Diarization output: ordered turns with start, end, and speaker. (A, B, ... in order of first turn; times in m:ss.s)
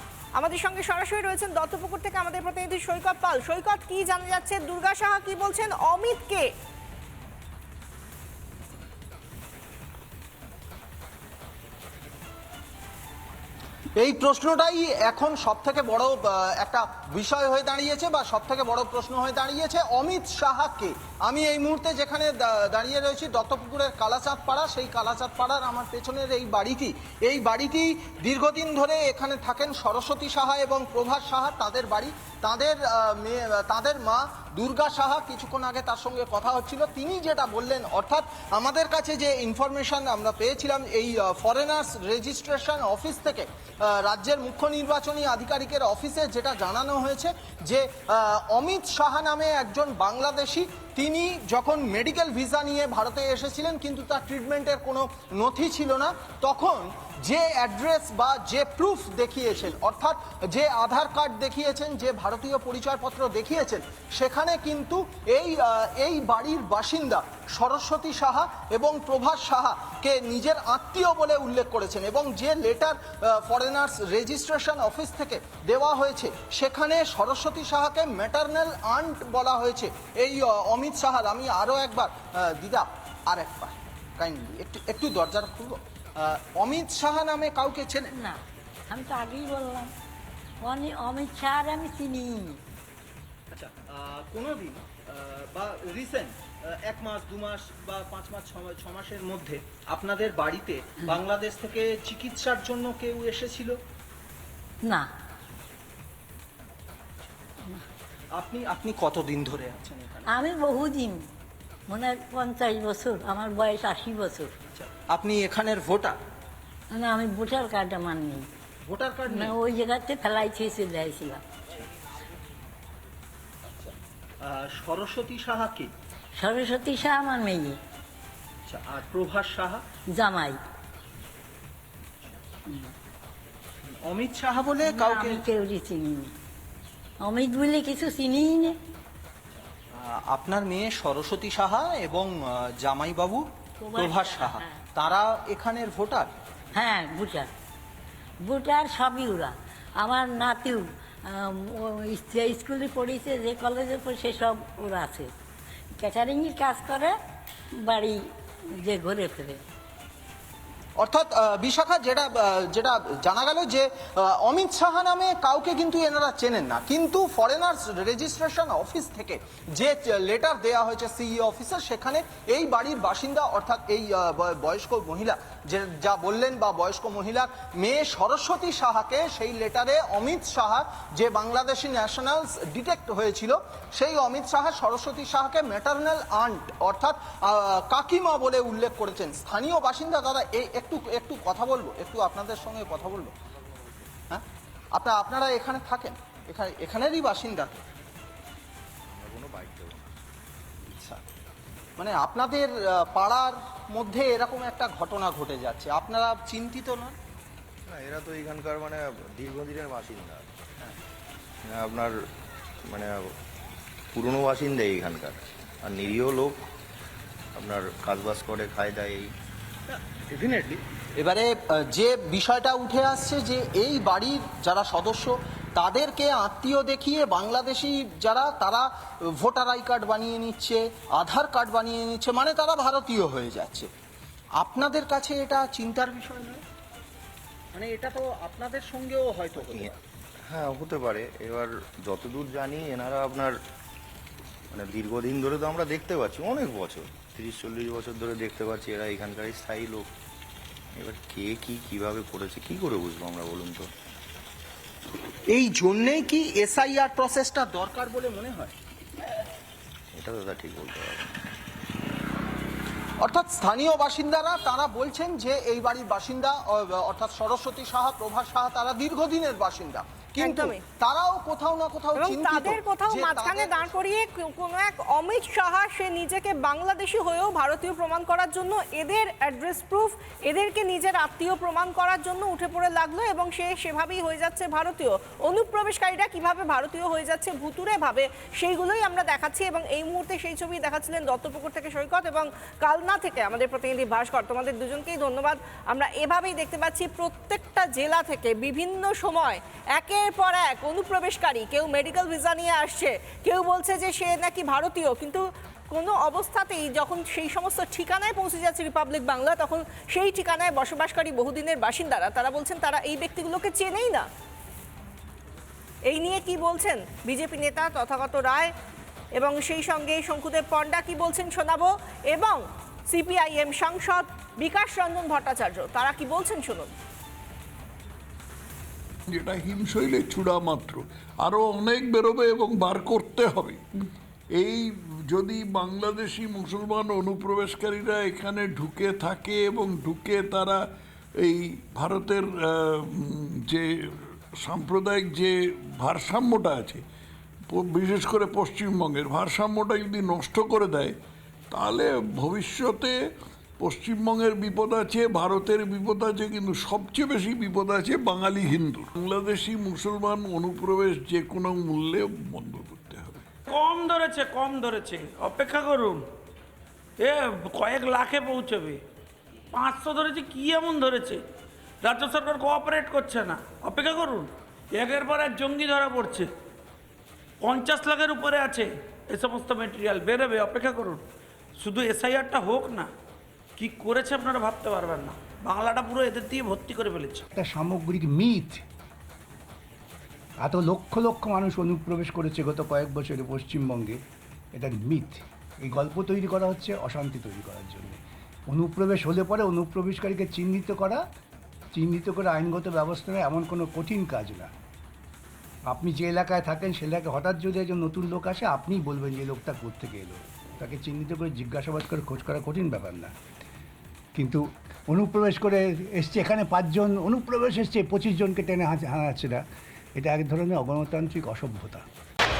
0:00.4-0:06.5 A
0:14.0-1:28.1 B
1:28.9-1:29.8 C
1:30.7-1:32.3 C
1:33.5-1:43.8 B
1:48.3-1:50.4 B
1:50.4-1:51.1 C
1:51.9-1:54.5 C
1:54.7-1:56.2 B
1:57.0-1:58.4 C
1:58.8-1:59.6 B
1:59.4-2:01.4 C
2:03.6-2:03.9 B
2:04.4-2:05.9 B
2:06.4-2:07.7 C
2:08.7-2:09.8 B
2:10.2-2:10.5 C
2:14.0-2:15.5 B
2:15.1-2:16.2 C
2:17.3-2:18.6 C
2:20.0-2:26.3 B
2:26.8-2:27.4 C
2:28.5-2:29.5 C
2:30.0-2:30.8 C
2:32.2-2:35.2 C
2:36.1-2:37.1 C
2:38.9-2:39.5 C
2:41.0-3:13.3 B
3:14.9-3:17.8 B
3:19.1-3:20.2 D
3:20.9-3:21.2 B
3:22.0-3:27.2 B
3:27.8-3:30.4 D
3:31.6-3:32.1 D
3:32.8-3:33.3 D
3:34.1-3:36.6 D
3:37.5-3:39.3 D
3:39.9-3:53.9 B
3:54.6-3:56.6 B
3:57.7-3:59.9 B
3:59.6-4:03.5 D
4:04.7-4:10.1 D
4:10.9-4:13.9 D
4:15.5-4:18.7 B
4:20.1-4:21.4 D
4:23.2-4:33.9 B
4:30.4-4:30.8 A
4:32.2-5:14.3 A
5:16.1-5:18.7 A
5:19.4-5:26.9 A
5:29.3-5:33.8 E
5:34.5-5:40.8 E
5:41.4-5:43.8 E
5:44.6-5:47.0 E
5:47.7-5:51.2 E
5:51.7-5:53.1 E
5:53.8-6:03.4 E
6:03.7-6:06.2 F
6:07.2-6:09.0 F
6:09.7-6:11.4 F
6:12.0-6:16.5 F
6:17.6-6:21.2 F
6:21.8-6:23.1 F
6:23.8-6:27.4 F
6:27.5-6:28.8 G
6:30.6-6:34.2 G
6:34.7-6:41.2 G
6:41.9-6:44.7 G
6:45.9-6:53.3 G
6:54.4-6:59.6 G
7:00.2-7:02.0 G